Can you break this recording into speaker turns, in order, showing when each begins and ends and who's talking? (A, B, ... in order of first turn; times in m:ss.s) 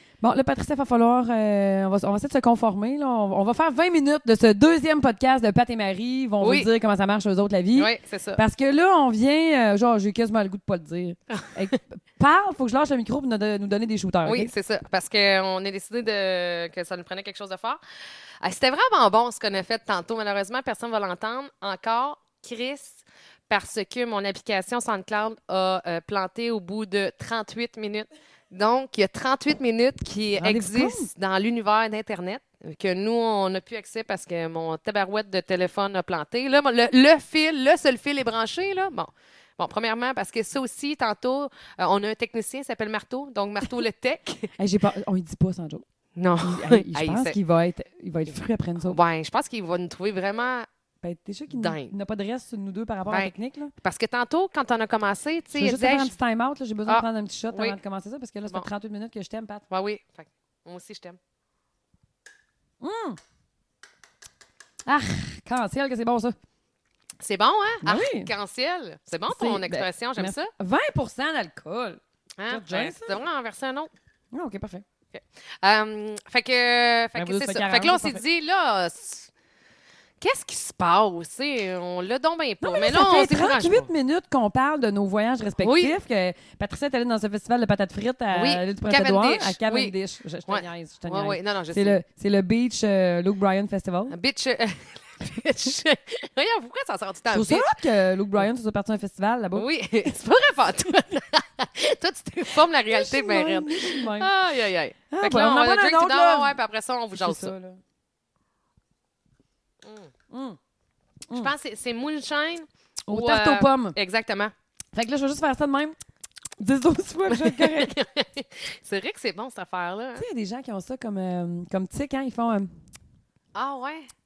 0:00.2-0:14.5 A
0:06.4-0:06.7 B
0:07.8-0:08.4 B
0:11.3-0:11.6 B
0:14.2-0:17.8 B
0:18.4-0:44.5 B
0:30.4-0:31.1 A
0:44.6-0:45.8 A
0:46.2-0:47.4 B
0:46.4-0:49.0 A
0:48.8-0:50.7 B
0:51.0-0:53.7 A
0:51.5-0:52.0 B
0:53.0-0:56.1 B
0:55.5-0:59.6 A
0:56.9-0:57.8 B
0:59.7-1:01.2 B
1:02.8-1:03.2 A
1:04.9-1:06.4 A
1:07.2-1:10.5 B
1:07.8-1:08.3 A
1:09.3-1:13.2 A
1:12.4-1:13.9 B
1:14.3-1:14.8 A
1:15.1-1:19.3 B
1:17.2-1:18.2 A
1:20.2-1:23.9 B
1:22.6-1:34.2 A
1:25.6-1:26.0 B
1:28.3-1:29.9 B
1:30.5-1:32.0 B
1:34.1-1:37.8 B
1:37.3-1:39.7 A
1:39.6-1:47.6 B
1:42.9-1:44.3 A
1:45.1-1:46.6 A
1:47.1-1:47.8 A
1:49.8-1:50.1 B
1:50.3-1:50.6 A
1:51.3-1:54.5 B
1:53.1-1:54.0 A
1:54.9-1:56.0 A
1:56.6-1:58.0 A
1:57.3-2:00.3 B
2:00.2-2:02.7 A
2:03.6-2:04.1 B